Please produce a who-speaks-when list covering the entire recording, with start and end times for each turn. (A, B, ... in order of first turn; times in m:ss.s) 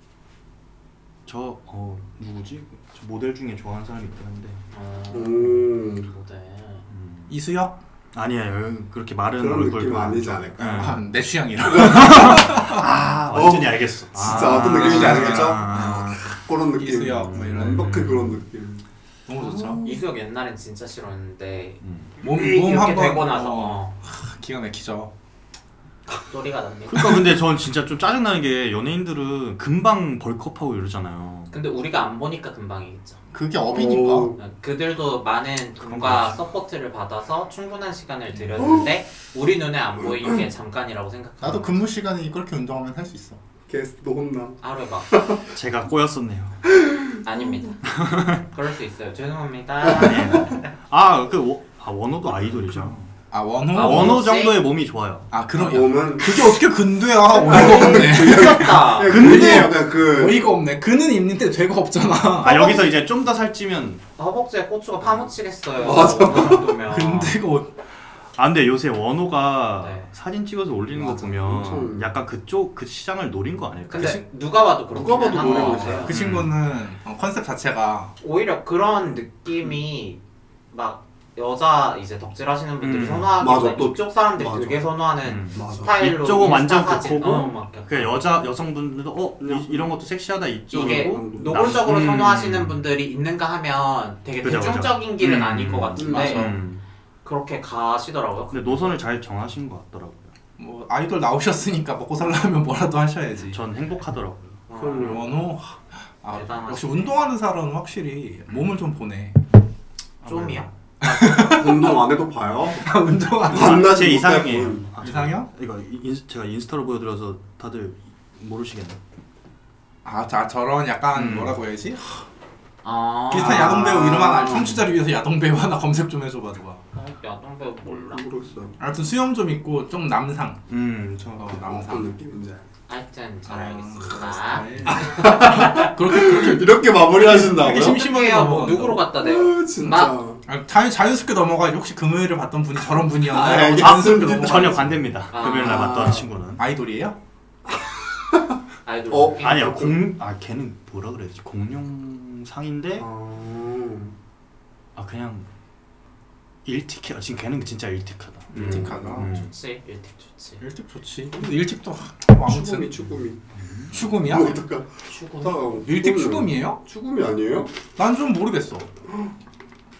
0:01.2-0:04.6 A
0:04.7-0:06.8 B
0:05.1-0:06.1 C
0:06.9-0:07.3 A
0:07.3-0:07.7 D
0:08.1-0:11.0 A
0:09.4-0:11.0 C
0:10.8-0:12.8 D
0:11.6-0:16.4 A
0:11.6-0:12.5 C
0:13.3-0:20.0 C
0:14.2-0:16.2 D
0:16.8-0:18.1 D
0:17.3-0:18.4 A
0:19.3-0:19.8 D
0:19.8-0:23.9 B
0:21.8-0:22.1 A
0:22.2-0:25.1 D
0:26.1-0:27.3 B
0:26.9-0:31.5 A
0:31.5-0:33.2 B
0:33.3-0:34.3 D
0:33.7-0:34.4 C
0:34.4-0:41.8 B
0:35.8-0:36.4 A
0:38.6-0:38.9 C
0:41.4-0:43.4 D
0:43.7-0:45.4 C
0:44.6-0:45.2 B
0:45.5-0:46.6 A
0:46.7-0:47.2 C
0:47.2-0:50.7 B
0:47.8-0:48.4 A
0:49.8-0:50.2 C
0:49.9-0:53.1 A
0:53.3-0:54.2 D
0:53.7-0:54.6 B
0:53.7-0:55.3 A
0:55.3-1:02.8 D
0:55.6-0:56.5 C
0:57.3-0:59.2 B
0:57.3-1:00.5 C
0:59.0-0:59.8 A
1:02.4-1:04.0 A
1:02.5-1:02.7 C
1:04.2-1:07.4 B
1:05.8-1:06.7 C
1:06.8-1:07.7 D
1:08.4-1:14.2 A
1:09.8-1:10.1 B
1:10.9-1:12.1 C
1:13.9-1:16.1 B
1:14.9-1:16.1 C
1:15.3-1:18.1 D
1:16.1-1:16.5 A
1:18.2-1:28.1 B
1:22.8-1:23.3 A
1:23.4-1:24.8 C
1:25.2-1:32.8 A
1:25.5-1:25.9 C
1:29.4-1:29.9 C
1:30.7-1:36.6 B
1:30.7-1:31.9 C
1:34.4-1:36.8 A
1:36.0-1:36.6 C
1:37.2-1:39.0 B
1:38.5-1:40.3 A
1:40.6-1:43.6 D
1:43.5-1:44.6 A
1:44.7-1:45.4 B
1:44.8-1:45.3 C
1:44.8-1:49.4 D
1:46.3-1:47.1 B
1:50.2-1:50.7 A
1:50.2-1:50.7 B
1:51.0-1:52.0 D
1:51.4-1:52.9 C
1:52.8-1:53.9 D
1:53.4-1:54.8 C
1:53.5-1:59.0 A
1:55.0-1:55.5 D
2:00.0-2:02.2 D
2:01.1-2:01.5 A
2:02.8-2:04.1 B
2:03.3-2:06.8 D
2:03.3-2:04.8 C
2:06.9-2:08.2 B
2:08.0-2:08.8 C
2:08.8-2:10.6 D
2:10.7-2:11.6 A
2:11.4-2:12.1 D
2:11.5-2:12.6 C
2:12.9-2:15.9 B
2:13.5-2:19.1 D
2:14.8-2:18.1 C
2:17.6-2:20.1 B
2:19.2-2:20.4 C
2:20.4-2:24.9 D
2:23.2-2:26.2 C
2:23.7-2:26.6 A
2:25.3-2:26.0 B
2:26.6-2:27.2 D
2:27.7-2:28.6 C
2:28.8-2:29.9 B
2:29.1-2:30.0 C
2:29.4-2:33.1 A
2:33.0-2:34.1 C
2:35.0-2:35.5 A
2:36.6-2:39.5 A
2:38.5-2:39.3 C
2:38.5-2:39.3 D
2:38.6-2:40.6 B
2:40.6-2:43.0 D
2:42.4-2:43.4 C
2:43.5-2:44.0 A
2:43.9-2:44.6 D
2:44.0-2:47.7 C
2:45.1-2:45.6 B
2:45.8-2:46.8 D
2:48.0-2:48.9 D